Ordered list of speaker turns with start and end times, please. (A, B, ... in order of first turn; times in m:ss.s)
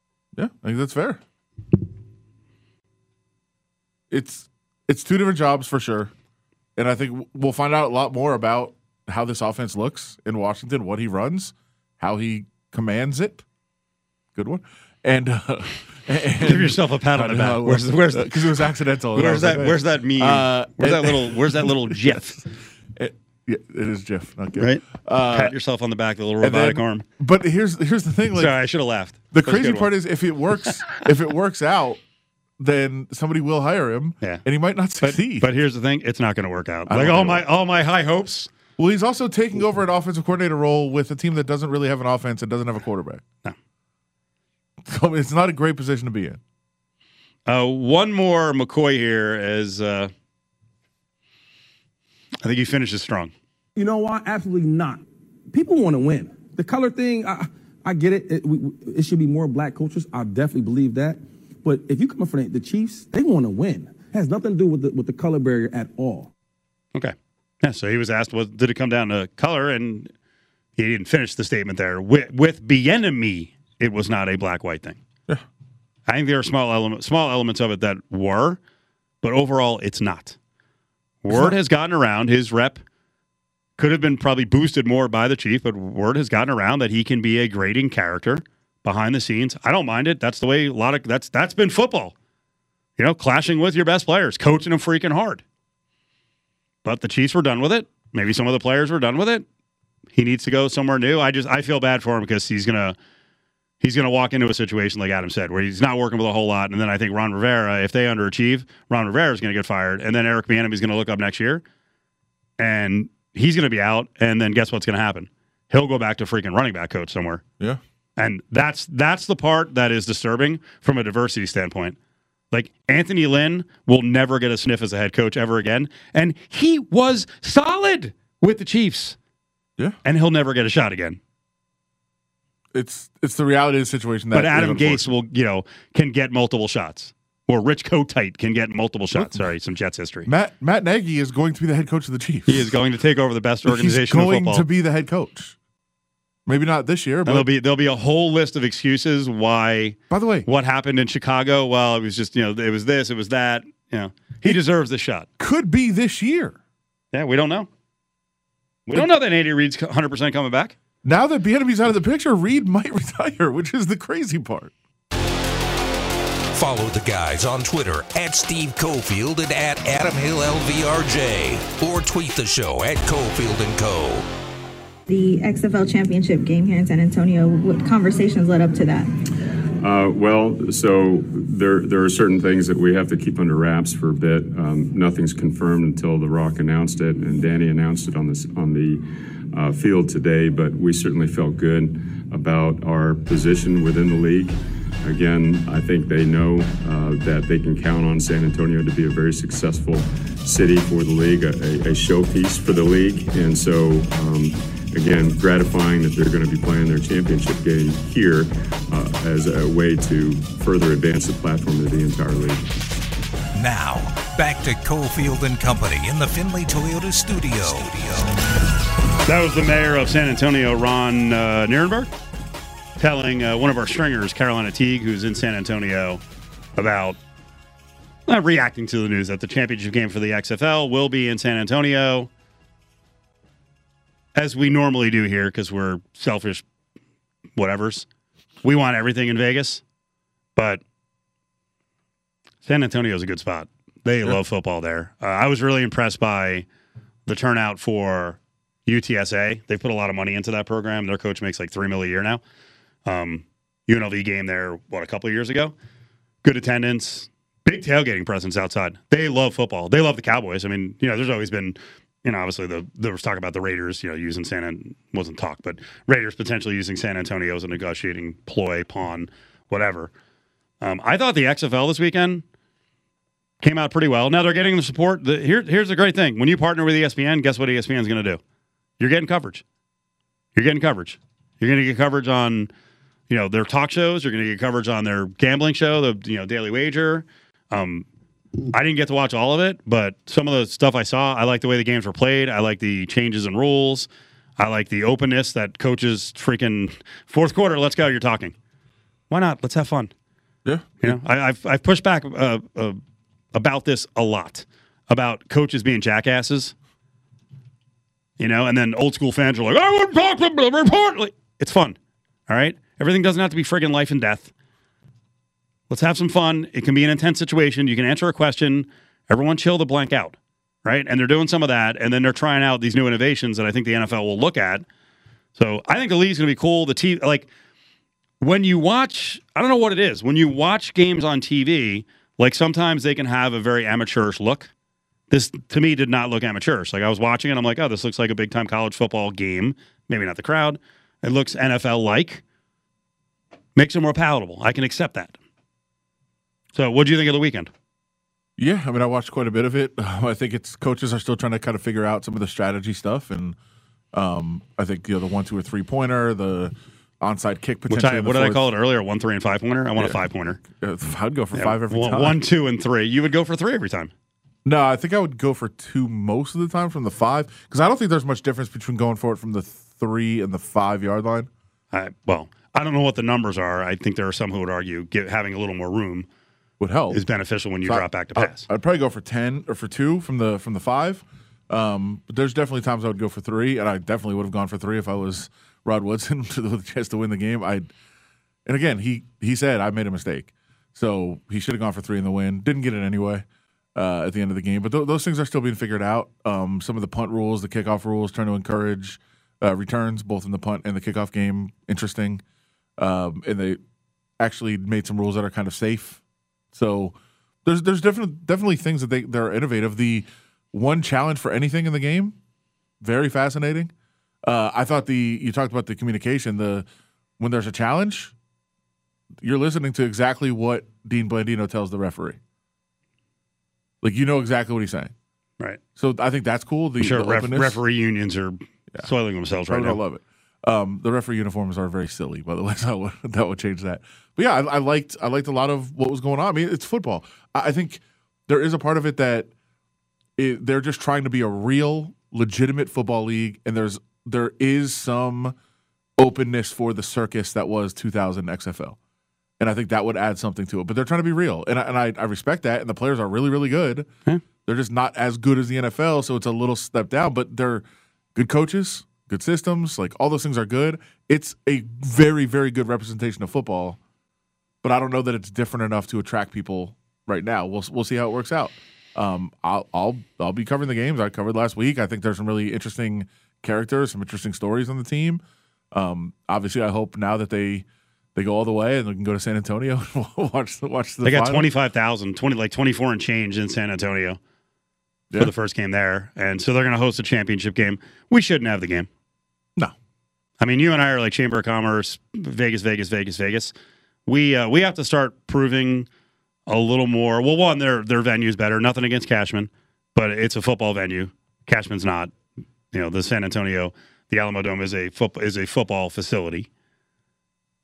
0:00.4-0:01.2 A
0:04.1-0:06.1 A
0:06.8-0:13.4 A
0:14.4-0:25.6 A
0:16.4-0:22.4 B
0:24.6-0:27.0 B
0:26.4-0:28.5 A
0:28.4-0:29.9 B
0:29.3-0:32.0 A
0:32.6-0:35.5 A
0:35.0-0:38.5 B
0:36.9-0:37.4 A
0:38.8-0:43.2 A
0:44.8-0:46.4 A
0:47.5-0:50.1 B
0:52.4-0:53.3 B
0:53.8-1:06.3 C
1:06.9-1:10.1 B
1:10.8-1:15.0 B
1:16.1-1:18.6 B
1:19.2-1:20.4 B
1:21.2-1:22.8 B
1:21.3-1:21.6 A
1:23.8-1:32.1 B
1:33.0-1:35.4 B
1:36.8-1:39.4 B
1:40.1-1:43.0 B
1:43.8-1:51.6 B
1:52.6-1:57.4 B
1:58.2-2:02.0 B
2:02.5-2:09.2 B
2:10.0-2:11.2 B
2:12.7-2:15.1 A
2:14.3-2:20.3 B
2:19.2-2:19.5 A
2:20.3-2:22.8 A
2:22.5-2:24.6 B
2:23.6-2:25.6 A
2:26.5-2:27.5 A
2:27.3-2:35.3 B
2:30.1-2:30.5 A
2:35.4-2:36.6 A
2:37.1-2:37.7 B
2:38.9-2:40.8 B
2:41.0-2:44.7 A
2:46.5-2:54.2 D
2:55.1-2:59.1 E
2:59.8-3:32.7 F
3:33.6-3:38.3 D
3:39.3-3:42.1 B
3:43.0-3:46.2 B
3:46.8-3:47.2 B
3:48.3-3:52.3 B
3:54.4-3:56.6 B
3:57.6-3:58.1 B
3:58.6-3:59.8 B
4:00.6-4:00.8 B
4:02.6-4:06.7 B
4:07.3-4:12.4 B
4:13.0-4:15.7 B
4:16.4-4:30.1 B
4:30.8-4:32.4 B
4:33.6-4:38.4 B
4:39.0-4:39.6 B
4:40.6-4:42.7 B
4:43.3-4:48.0 B
4:48.7-4:58.5 B
4:59.3-5:00.1 B
5:00.6-5:01.1 A
5:01.0-5:03.0 B
5:03.5-5:06.7 B
5:08.4-5:12.0 B
5:12.5-5:14.5 B
5:15.9-5:24.8 B
5:25.6-5:27.5 B
5:28.4-5:34.7 B
5:35.3-5:42.4 B
5:43.8-5:45.4 B
5:46.8-5:47.7 B
5:48.6-5:53.6 A
5:54.1-5:58.6 A
5:57.9-6:00.6 B
6:00.7-6:02.4 A
6:01.6-6:04.1 B
6:04.6-6:11.5 A
6:11.9-6:16.3 B
6:16.8-6:17.2 A
6:17.1-6:18.6 B
6:17.8-6:27.9 A
6:28.7-6:42.4 A
6:43.0-6:43.8 A
6:44.4-6:46.2 A
6:46.7-6:52.4 A
6:53.0-6:53.9 A
6:54.4-6:56.9 A
6:57.4-6:58.3 A
6:59.4-7:02.4 A
7:04.0-7:05.1 A
7:06.0-7:07.8 A
7:07.0-7:10.0 B
7:09.7-7:19.5 A
7:20.4-7:25.6 A
7:26.2-7:29.0 A
7:29.6-7:34.1 A
7:34.6-7:44.0 A
7:44.8-8:01.7 A
8:01.2-8:04.4 B
8:05.4-8:09.1 B
8:10.6-8:13.7 B
8:14.3-8:16.1 B
8:16.7-8:22.3 B
8:22.9-8:26.7 B